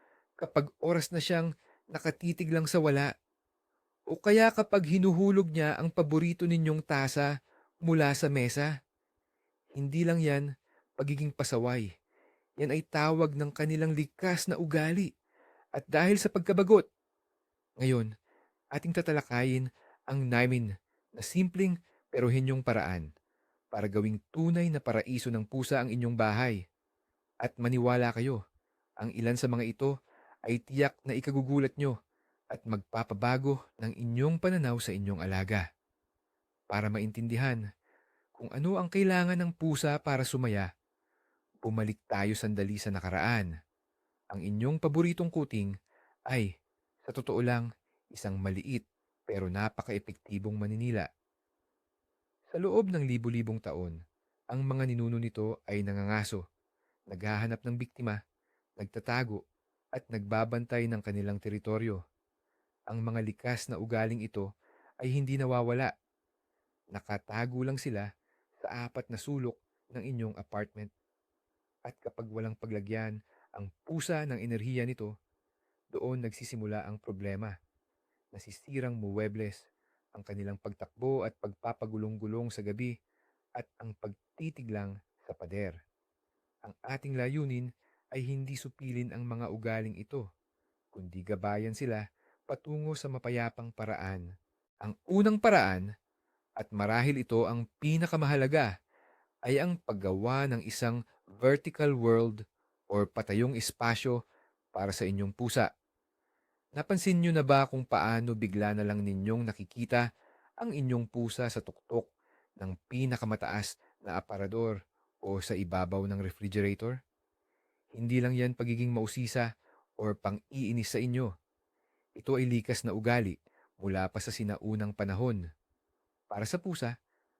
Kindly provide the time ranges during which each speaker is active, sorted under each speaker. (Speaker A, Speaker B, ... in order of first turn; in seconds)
Speaker A: 0.4-3.1, 4.1-7.3, 7.8-8.7, 9.8-10.4, 11.0-11.9, 12.6-15.1, 15.7-16.8, 17.8-18.1, 18.7-23.1, 23.7-26.6, 27.4-28.4, 29.0-29.9, 30.5-31.9, 32.5-35.6, 36.7-37.6, 38.4-40.7, 41.6-43.5, 44.3-45.7, 47.1-51.0, 52.5-54.0, 54.5-56.4, 57.1-58.2, 58.8-59.4, 59.9-62.0, 62.9-64.5, 65.0-65.9, 66.9-68.0, 68.6-70.9, 71.8-75.1, 75.9-77.5, 78.3-82.9, 83.6-85.8, 86.6-90.2, 90.9-94.2, 94.8-95.8, 96.6-98.7, 99.5-104.2, 104.7-105.7, 106.8-110.0, 110.6-117.0, 118.0-119.5, 120.0-121.3, 122.2-125.4, 126.3-126.9